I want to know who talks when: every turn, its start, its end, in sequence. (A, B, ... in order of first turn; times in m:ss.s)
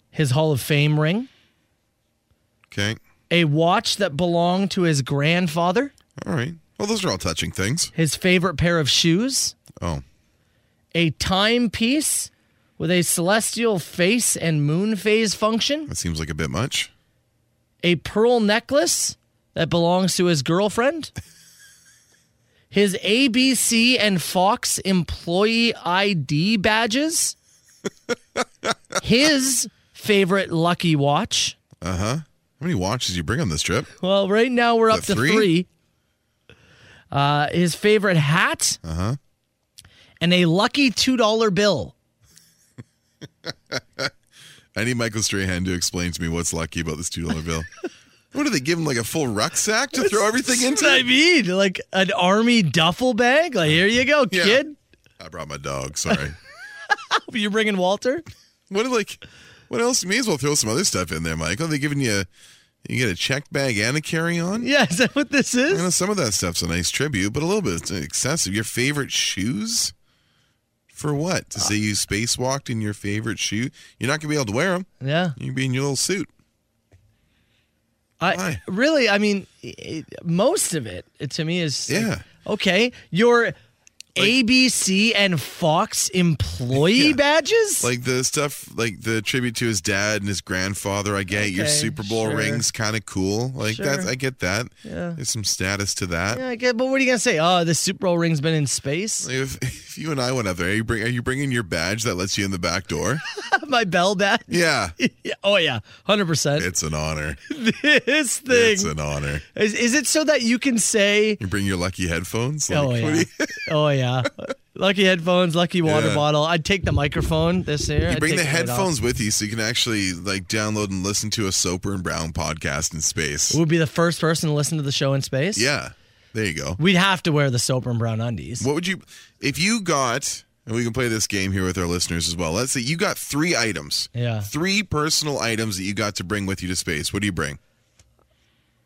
0:00.1-0:01.3 A
0:02.7-0:03.0 B
0:03.3-0:05.9 A
0:06.2-0:07.9 B
0:07.9-0:09.6 A
0:09.8-0:10.0 B
0:10.9-0:15.9 A
0:15.9-0:16.9 B
0:17.8-0:21.1 A
0:22.7-0:27.3 A
0:29.0-0:31.6 A
0:31.8-0:33.9 B
0:34.0-0:35.7 A
0:34.9-0:35.5 B
0:37.1-0:38.8 A
0:38.8-0:39.2 B
0:40.2-0:41.9 A
0:43.4-0:44.1 B
0:44.7-0:47.7 B
0:48.3-0:51.0 B
0:49.9-0:54.8 A
0:54.3-0:54.6 B
0:55.2-0:56.4 B
0:56.9-0:58.2 A
0:58.7-1:02.3 B
1:02.8-1:04.7 B
1:04.6-1:05.9 A
1:05.7-1:09.9 B
1:10.9-1:16.3 B
1:15.0-1:15.4 A
1:18.2-1:23.6 A
1:18.3-1:18.6 B
1:21.9-1:22.2 B
1:24.1-1:27.9 A
1:26.7-1:27.2 B
1:27.8-1:36.4 B
1:31.3-1:32.6 A
1:33.6-1:34.1 A
1:34.8-1:35.2 A
1:36.3-1:39.3 A
1:39.2-1:43.2 B
1:43.3-1:46.7 A
1:44.5-1:45.0 B
1:46.6-1:47.4 B
1:47.5-1:48.9 A
1:48.5-1:49.4 B
1:49.5-1:51.4 A
1:51.4-1:53.5 B
1:52.7-1:58.9 A
1:55.8-1:56.2 B
1:58.0-2:03.6 B
2:03.5-2:05.7 A
2:05.5-2:06.8 B
2:06.8-2:08.6 A
2:08.6-2:17.6 B
2:14.1-2:14.5 A